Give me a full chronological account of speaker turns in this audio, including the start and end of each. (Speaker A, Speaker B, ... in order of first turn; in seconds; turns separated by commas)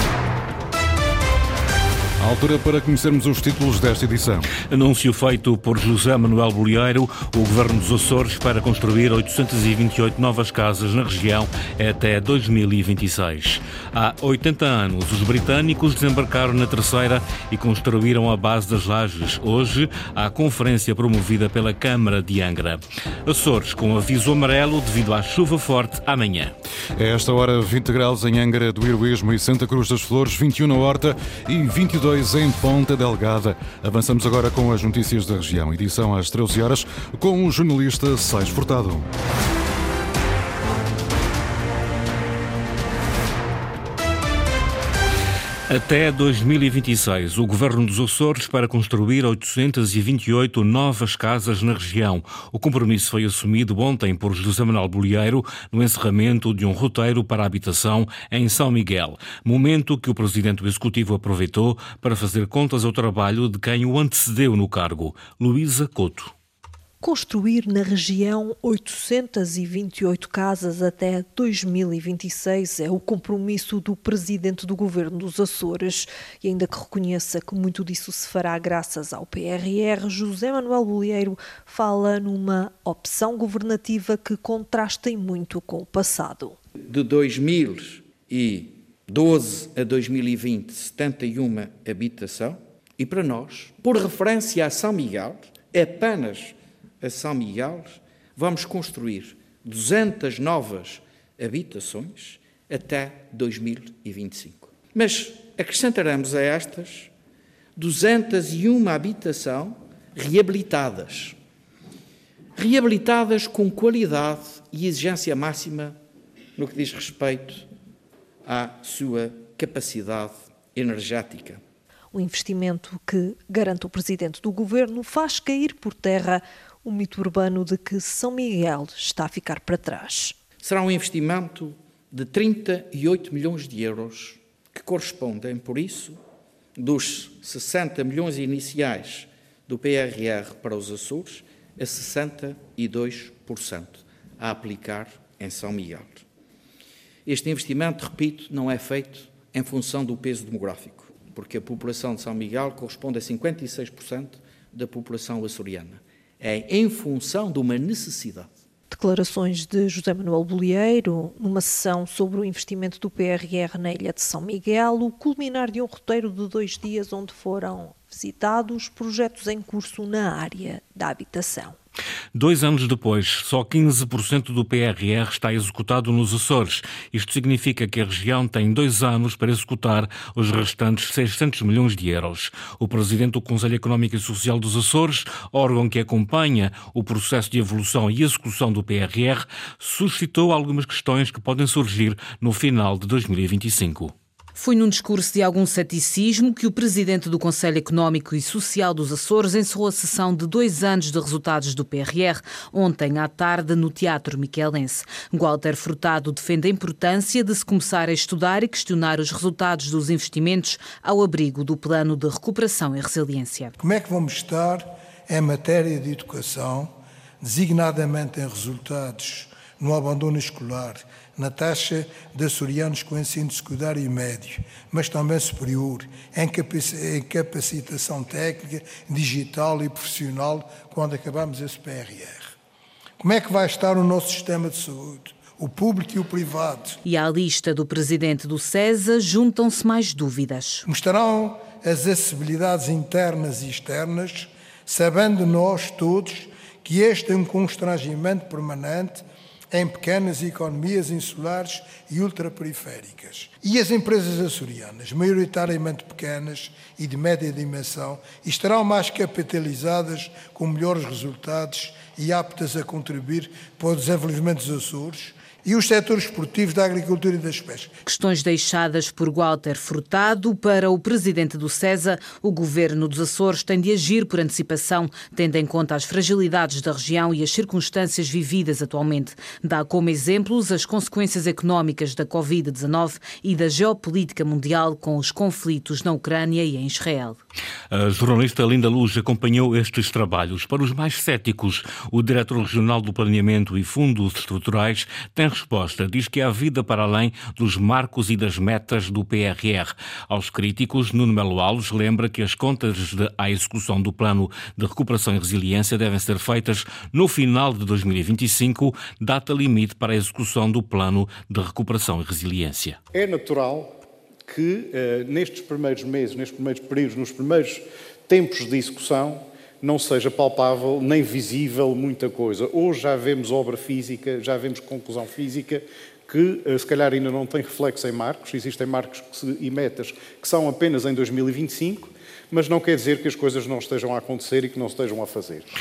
Speaker A: 2.2-4.4, Speaker B: 4.7-26.5, Speaker A: 27.0-39.1, Speaker B: 45.7-66.3, Speaker C: 67.0-86.5, Speaker D: 86.9-107.1, Speaker D: 107.8-111.3, Speaker D: 112.5-116.0, Speaker D: 116.5-117.7, Speaker D: 118.4-121.6, Speaker C: 122.1-130.4, Speaker D: 130.6-136.2, Speaker D: 136.8-146.2, Speaker D: 147.2-158.5, Speaker C: 158.9-171.7, Speaker B: 172.3-194.1, Speaker E: 194.5-213.7, Speaker F: 213.8-232.5, Speaker F: 233.2-237.0, Speaker E: 237.0-240.8, Speaker F: 240.8-267.9, Speaker E: 268.0-287.4, Speaker B: 287.9-313.0, Speaker G: 313.3-313.7, Speaker G: 314.5-317.6, Speaker G: 318.3-319.2, Speaker G: 319.8-323.9, Speaker G: 324.4-325.1, Speaker G: 327.7-328.8, Speaker G: 330.4-331.8, Speaker G: 332.5-335.5